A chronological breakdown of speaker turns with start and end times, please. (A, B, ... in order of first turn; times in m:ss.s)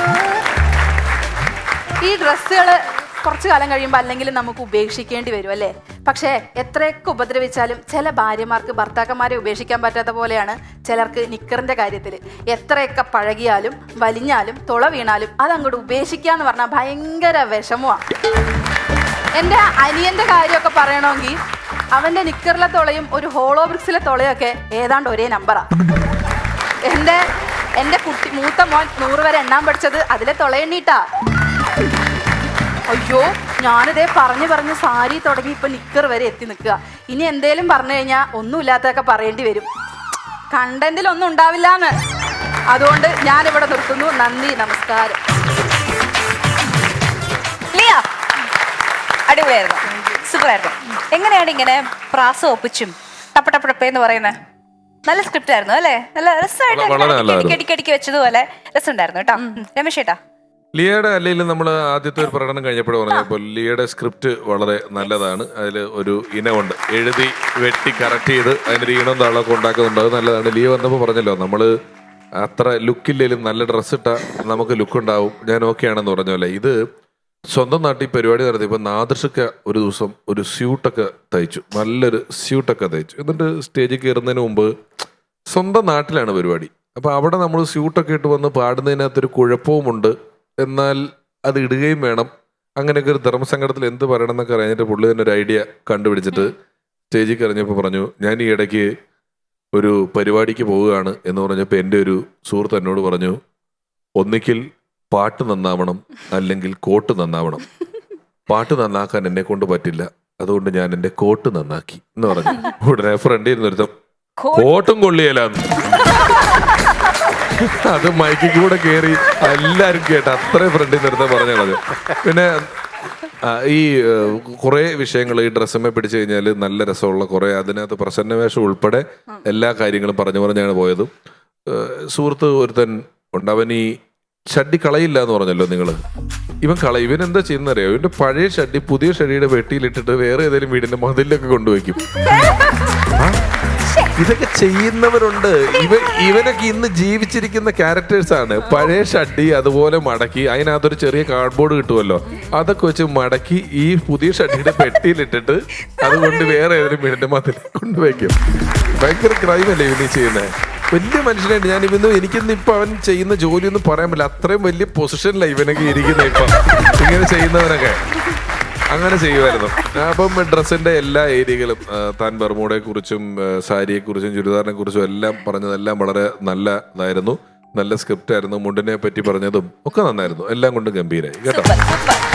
0:02.0-0:18.0 A
0:19.4-0:21.4 A
0:21.9-0:25.7 A
0:26.8-0:27.2 A
0:27.8-0:31.0 A
0:32.9-0:39.7 A
0:40.5-0:41.9 A
0:42.7-0:45.2 A
0:47.7-0:48.0 B
0:49.3-0:54.4 B
0:55.0-1:00.2 B
0:56.7-0:57.6 C
1:00.7-1:11.7 C
1:12.4-1:16.8 C
1:17.5-1:24.7 C
1:25.5-1:36.5 C
1:37.1-1:38.9 C
1:39.7-1:43.4 C
1:44.2-1:47.6 C
1:48.5-1:53.9 C
1:54.4-1:54.7 B
1:54.5-1:56.1 C
1:57.5-2:02.7 C
2:03.4-2:11.1 C
2:11.6-2:13.9 C
2:14.5-2:16.0 C
2:16.6-2:22.0 C
2:22.2-2:23.0 B
2:23.1-2:23.4 C
2:24.2-2:48.0 C
2:36.0-2:36.5 B
2:48.9-3:01.7 C
3:01.4-3:02.2 B